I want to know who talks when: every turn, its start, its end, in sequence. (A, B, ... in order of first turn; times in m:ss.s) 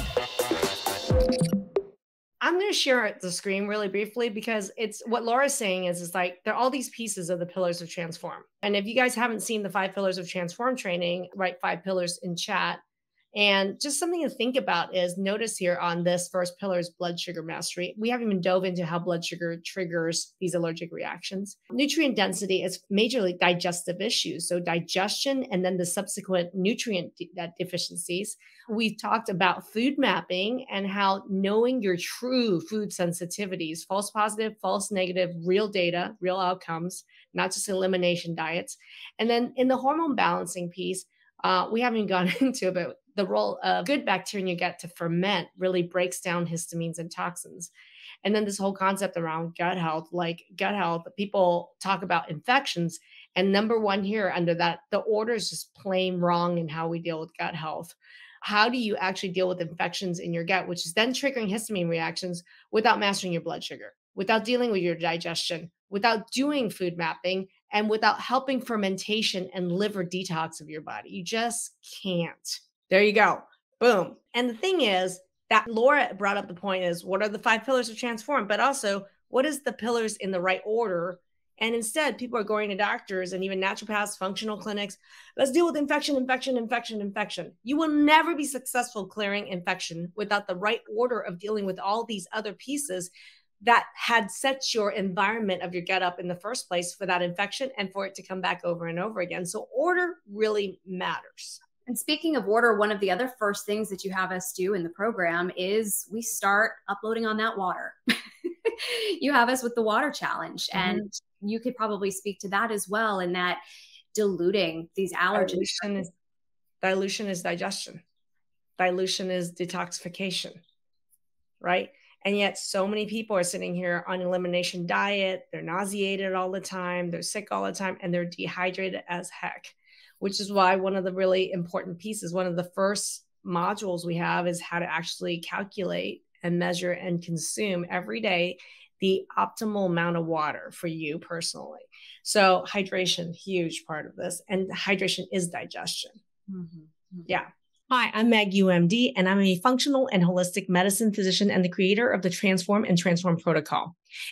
0:02.4-0:12.8 A
0:13.3-0:47.7 A
0:48.2-1:33.1 A
1:33.6-1:41.6 A
1:41.8-1:53.6 B
1:50.7-1:51.0 A
1:54.1-1:56.1 B
1:55.3-1:56.1 A
1:56.8-1:58.0 A
1:58.8-2:00.6 A
2:01.6-2:26.2 A
2:26.5-2:27.3 B
2:27.3-2:33.9 A